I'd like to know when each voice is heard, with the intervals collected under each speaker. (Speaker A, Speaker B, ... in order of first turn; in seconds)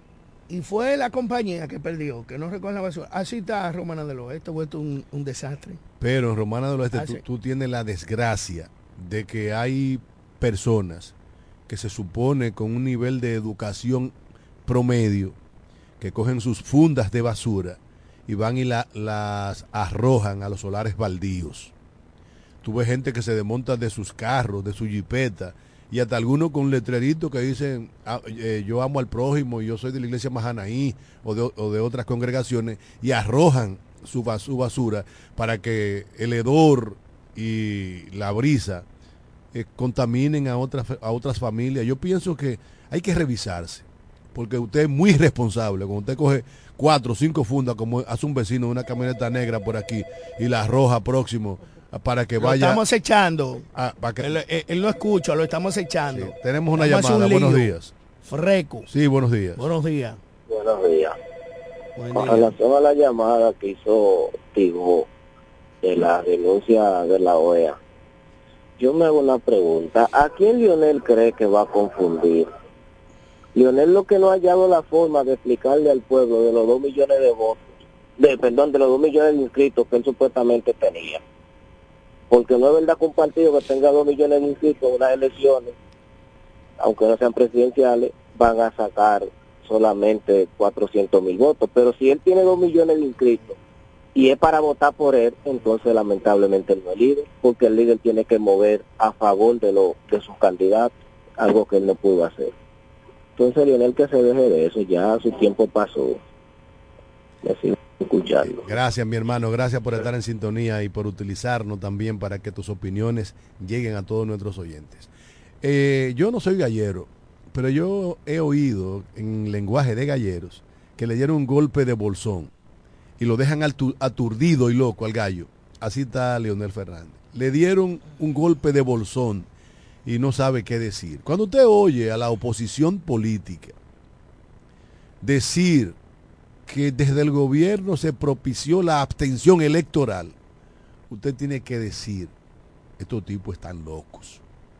Speaker A: 0.5-5.8, 6.9-7.2, 52.4-53.6, 54.2-58.9, 59.6-60.2, 62.0-62.5
Speaker B: 6.0-11.1, 11.7-14.1, 14.7-15.3, 16.0-21.7, 22.6-38.8, 39.5-52.8, 53.7-54.4, 56.1-57.9, 58.9-59.7, 108.4-115.1, 115.6-122.5, 123.2-129.5, 130.0-133.7, 135.2-136.0, 136.7-140.3, 141.1-142.3, 143.0-144.4
Speaker C: 60.5-61.1, 62.1-65.1, 65.8-67.8, 68.8-72.5, 73.5-77.6, 78.2-81.2, 82.3-85.7, 86.8-93.5, 94.1-102.5, 103.4-106.2, 107.4-108.6